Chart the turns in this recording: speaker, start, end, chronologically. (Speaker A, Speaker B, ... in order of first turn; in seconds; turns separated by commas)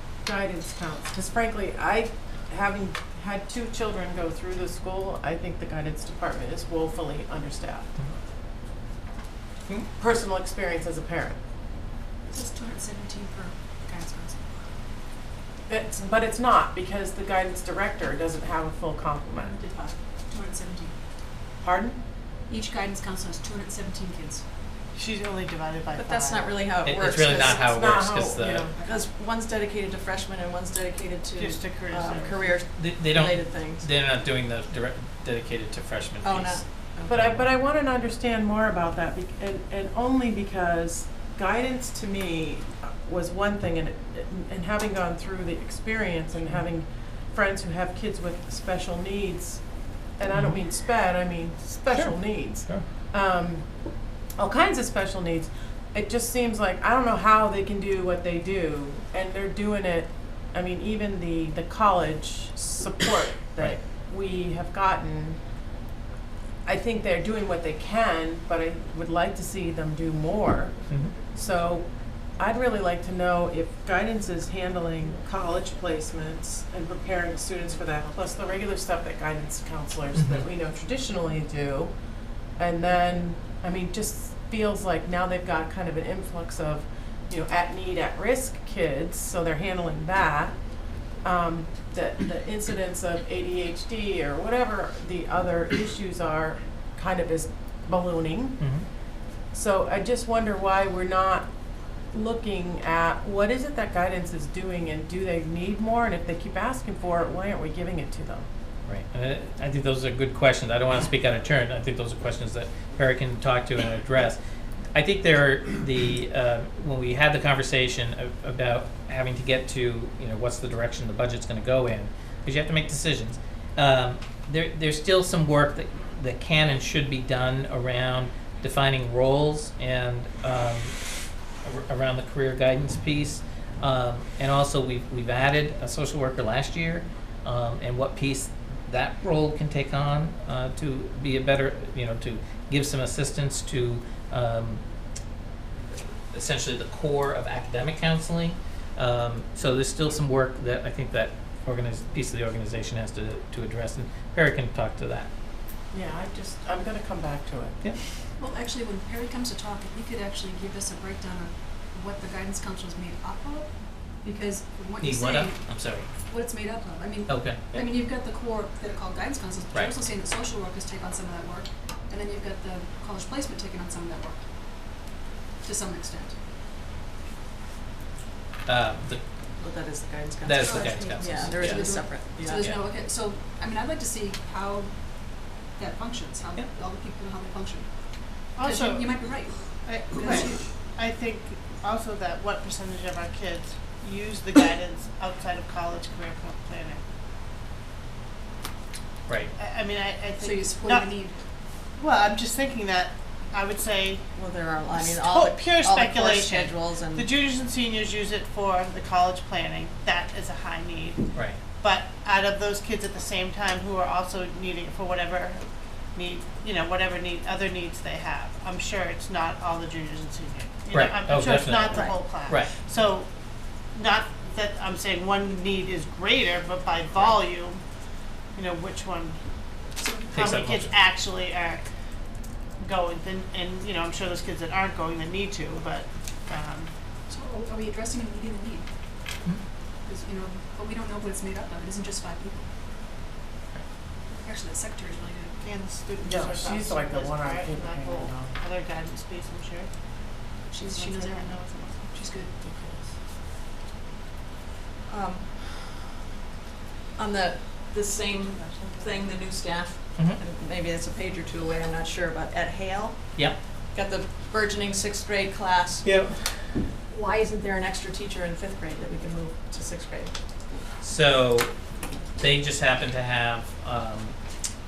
Speaker A: 0.2-8.0, Speaker A: 10.0-11.4, Speaker B: 12.3-14.5, Speaker A: 15.7-19.6, Speaker B: 19.4-20.9, Speaker A: 21.6-22.0, Speaker B: 22.5-24.4, Speaker C: 24.9-26.6, Speaker D: 26.0-27.7, Speaker E: 26.8-28.7, Speaker A: 27.3-28.8, Speaker D: 28.8-33.8, Speaker C: 31.3-32.6, Speaker E: 32.8-36.6, Speaker D: 36.2-37.1, Speaker A: 37.1-49.6, Speaker E: 37.1-37.4, Speaker A: 50.2-53.7, Speaker E: 50.3-50.6, Speaker E: 51.9-52.8, Speaker A: 54.4-65.4, Speaker A: 66.7-82.0, Speaker E: 70.9-71.2, Speaker E: 80.2-80.5, Speaker A: 82.5-90.6, Speaker A: 91.2-98.6, Speaker E: 98.6-98.9, Speaker A: 99.5-101.5, Speaker A: 102.1-108.5, Speaker E: 108.9-114.4, Speaker E: 115.0-131.0, Speaker E: 131.6-144.8, Speaker E: 145.9-155.3, Speaker A: 155.9-157.8, Speaker B: 158.4-163.7, Speaker B: 164.2-165.6, Speaker E: 165.0-166.1, Speaker B: 166.2-174.4, Speaker E: 167.3-167.9, Speaker E: 169.7-170.0, Speaker B: 175.6-176.3, Speaker E: 178.7-179.2, Speaker D: 179.6-182.6, Speaker E: 180.4-182.8, Speaker B: 180.6-184.9, Speaker B: 185.8-187.9, Speaker C: 188.6-197.0, Speaker B: 188.6-190.6, Speaker C: 199.6-201.2, Speaker B: 200.4-201.4, Speaker C: 202.0-215.6, Speaker D: 204.4-207.3, Speaker C: 216.2-223.3, Speaker E: 220.9-222.7, Speaker D: 221.9-222.2, Speaker C: 223.9-227.8, Speaker C: 228.6-229.4, Speaker B: 230.0-230.5, Speaker E: 230.3-230.9, Speaker C: 230.4-231.8, Speaker C: 232.8-236.9, Speaker B: 237.3-238.9, Speaker B: 240.1-242.7, Speaker B: 244.3-245.6, Speaker C: 245.6-249.9, Speaker A: 246.2-248.5, Speaker B: 250.7-251.6, Speaker C: 250.9-252.1, Speaker B: 252.1-252.5, Speaker D: 255.1-255.6, Speaker D: 257.2-266.1, Speaker C: 258.1-259.6, Speaker E: 266.0-266.5, Speaker D: 267.1-270.3, Speaker E: 271.0-271.7, Speaker E: 272.4-274.4